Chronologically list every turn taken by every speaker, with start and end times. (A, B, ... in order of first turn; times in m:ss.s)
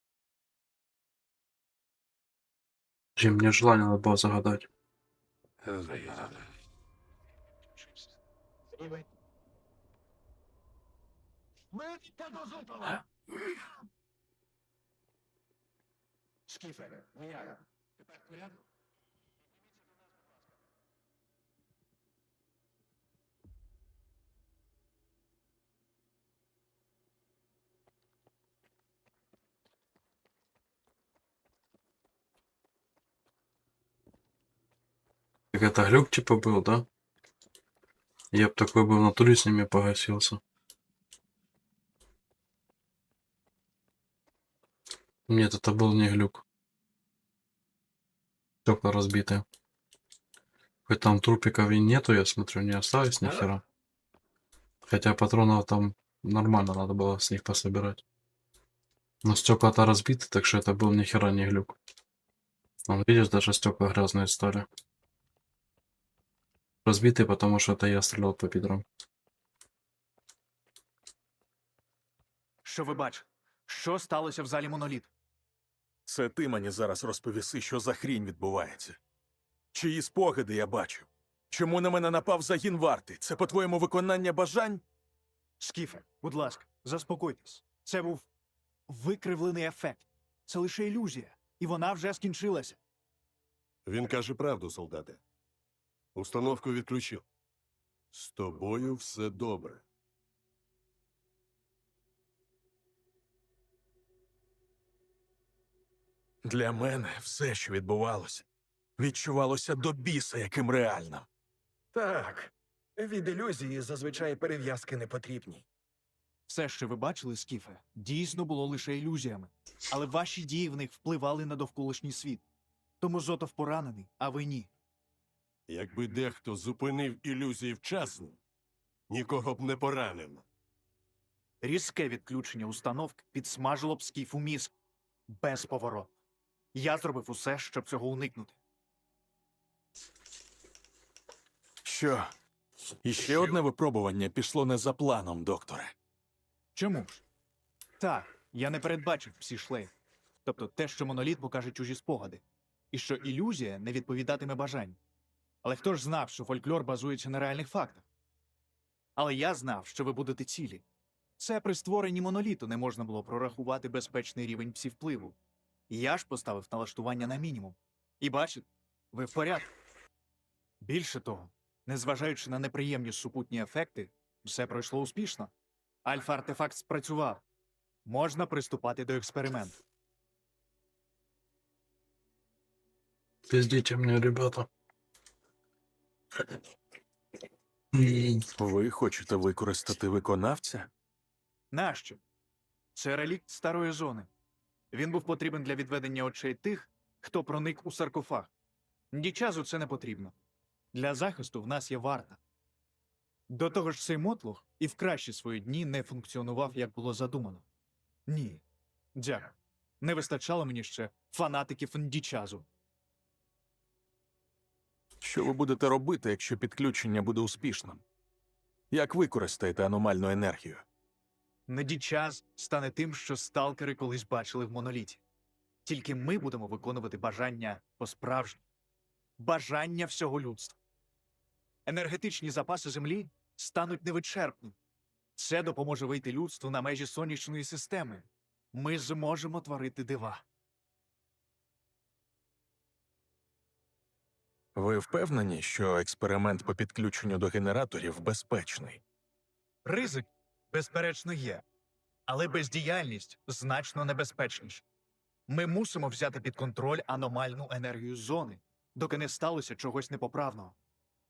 0:03.2-0:04.7 A
0:12.0-0:13.0 B
0:16.6-0:17.5 B
0:35.5-0:36.8 A
0:38.3-0:40.4 A
0:45.3-0:46.4 A
0:48.6-0:49.4 A
0:50.9-0:53.6 A
0:54.8-0:58.0 A
0:59.2-1:01.8 A
1:02.9-1:04.6 A
1:06.8-1:08.8 A
1:12.6-1:15.1 C
1:16.0-1:19.0 D
1:19.7-1:24.8 D
1:25.6-1:28.3 C
1:28.9-1:32.8 C
1:33.8-1:35.2 E
1:36.1-1:37.2 E
1:38.1-1:39.8 E
1:46.4-1:48.4 D
1:49.0-1:51.3 D
1:51.9-1:55.6 B
1:56.5-2:02.4 C
2:03.0-2:04.7 C
2:05.7-2:08.4 E
2:09.1-2:10.4 E
2:11.6-2:14.7 C
2:15.3-2:16.1 C
2:16.7-2:18.6 C
2:21.8-2:22.3 D
2:23.0-2:25.9 D
2:26.7-2:27.2 C
2:28.0-2:29.9 C
2:30.4-2:35.0 C
2:35.6-2:38.0 C
2:39.2-2:40.8 C
2:41.4-2:45.4 C
2:45.9-2:49.7 C
2:50.8-2:55.5 C
2:56.0-2:57.4 C
2:58.0-2:59.7 C
3:03.5-3:04.7 A
3:07.9-3:08.4 A
3:08.6-3:10.9 D
3:11.7-3:12.2 C
3:12.9-3:14.3 C
3:14.9-3:18.5 C
3:19.1-3:20.3 C
3:20.9-3:22.4 C
3:23.5-3:27.6 C
3:28.3-3:28.6 C
3:29.1-3:32.7 C
3:35.2-3:38.0 D
3:38.9-3:40.8 D
3:41.7-3:45.2 C
3:45.8-3:48.6 C
3:49.4-3:50.8 C
3:51.8-3:54.8 C
3:55.4-4:00.4 C
4:04.7-4:09.0 D
4:09.8-4:11.6 C
4:12.3-4:14.8 C
4:15.5-4:20.8 C